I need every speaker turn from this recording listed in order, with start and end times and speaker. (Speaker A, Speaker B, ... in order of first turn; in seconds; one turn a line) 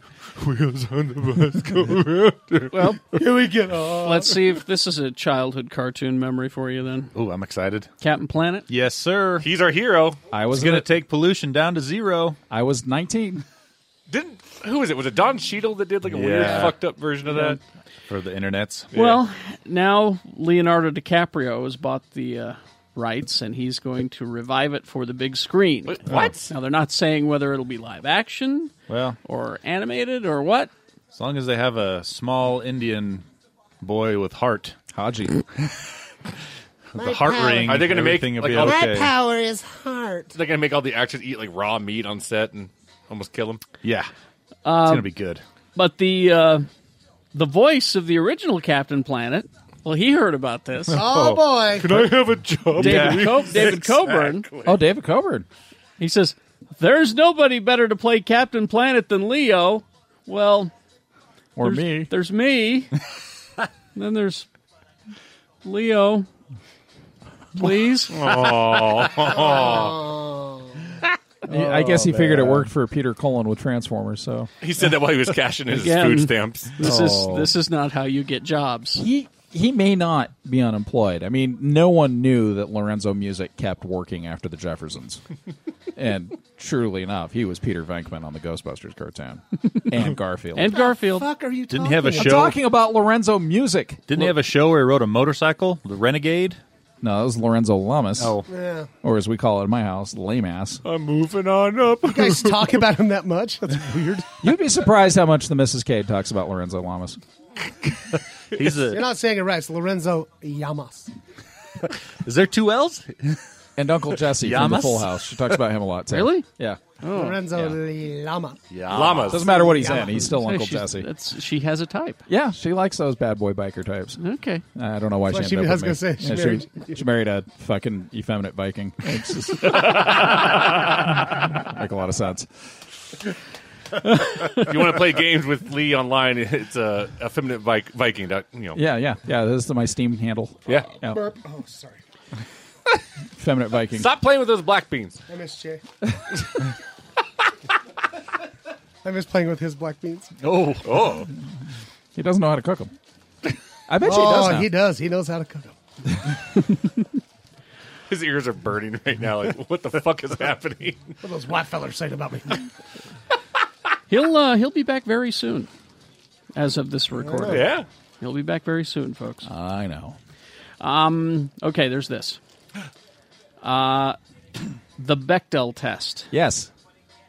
Speaker A: 0.5-2.7
Speaker B: 0.5-2.1
Speaker C: 2.7-3.0
Speaker D: 3.1-4.6
Speaker C: 4.0-7.1
Speaker B: 7.2-7.9
Speaker C: 8.0-8.7
Speaker B: 8.7-9.5
Speaker A: 9.4-10.2
Speaker E: 10.3-10.9
Speaker B: 10.5-12.4
Speaker E: 12.5-13.4
Speaker A: 14.1-17.6
Speaker B: 16.1-16.8
Speaker B: 18.1-18.9
Speaker A: 18.9-19.2
Speaker C: 18.9-28.7
Speaker A: 25.9-26.5
Speaker B: 26.1-26.3
Speaker B: 28.9-29.2
Speaker C: 29.2-30.7
Speaker B: 31.1-33.2
Speaker B: 33.8-34.8
Speaker E: 34.9-35.4
Speaker B: 36.9-39.1
Speaker D: 37.0-38.0
Speaker A: 37.6-38.8
Speaker D: 38.6-40.3
Speaker A: 40.3-43.6
Speaker B: 43.8-44.1
Speaker C: 44.6-45.1
Speaker B: 44.8-45.4
Speaker C: 45.8-46.7
Speaker C: 47.3-51.0
Speaker B: 50.9-53.8
Speaker D: 50.9-52.1
Speaker A: 51.8-54.8
Speaker C: 52.8-54.5
Speaker E: 54.6-55.5
Speaker C: 56.0-60.7
Speaker E: 61.6-62.1
Speaker C: 61.6-62.9
Speaker C: 64.0-64.5
Speaker C: 65.6-66.3
Speaker C: 67.6-68.2
Speaker A: 68.1-70.0
Speaker D: 69.3-70.9
Speaker E: 71.5-74.5
Speaker B: 71.5-72.6
Speaker A: 74.6-76.8
Speaker C: 75.7-79.0
Speaker B: 76.8-77.5
Speaker E: 79.0-85.2
Speaker E: 86.0-90.8
Speaker C: 90.5-91.3
Speaker D: 90.7-92.5
Speaker B: 91.7-92.6
Speaker E: 92.1-94.3
Speaker B: 94.1-96.6
Speaker E: 97.0-98.4
Speaker B: 98.2-98.5
Speaker D: 98.5-98.9
Speaker E: 99.0-100.8
Speaker B: 100.9-102.5
Speaker D: 102.0-104.3
Speaker E: 104.4-107.2
Speaker B: 108.5-109.0
Speaker D: 108.9-111.1
Speaker B: 112.3-113.0
Speaker A: 112.3-113.0
Speaker E: 113.8-116.8
Speaker B: 114.4-115.1
Speaker C: 116.1-116.5
Speaker C: 117.0-117.4
Speaker D: 117.1-118.6
Speaker B: 118.7-119.4
Speaker A: 118.9-119.7
Speaker D: 119.3-120.3
Speaker E: 119.3-121.1
Speaker C: 120.2-122.2
Speaker E: 122.3-124.2
Speaker C: 124.2-124.6
Speaker E: 124.8-132.5
Speaker D: 125.3-127.0
Speaker C: 134.3-134.6
Speaker A: 134.5-138.8
Speaker E: 138.8-141.2
Speaker D: 141.1-142.0
Speaker E: 143.4-144.1
Speaker A: 144.0-145.2
Speaker D: 145.3-145.8
Speaker D: 149.0-150.3
Speaker A: 150.4-151.3
Speaker E: 152.2-152.9
Speaker E: 153.9-154.7
Speaker D: 154.0-155.7
Speaker A: 158.1-161.1
Speaker D: 161.2-162.7
Speaker C: 164.1-165.7
Speaker C: 166.6-169.5
Speaker D: 167.1-167.7
Speaker A: 167.5-167.9
Speaker E: 169.4-170.2
Speaker C: 170.8-172.4
Speaker C: 173.6-174.2
Speaker C: 175.0-176.3
Speaker E: 176.3-176.7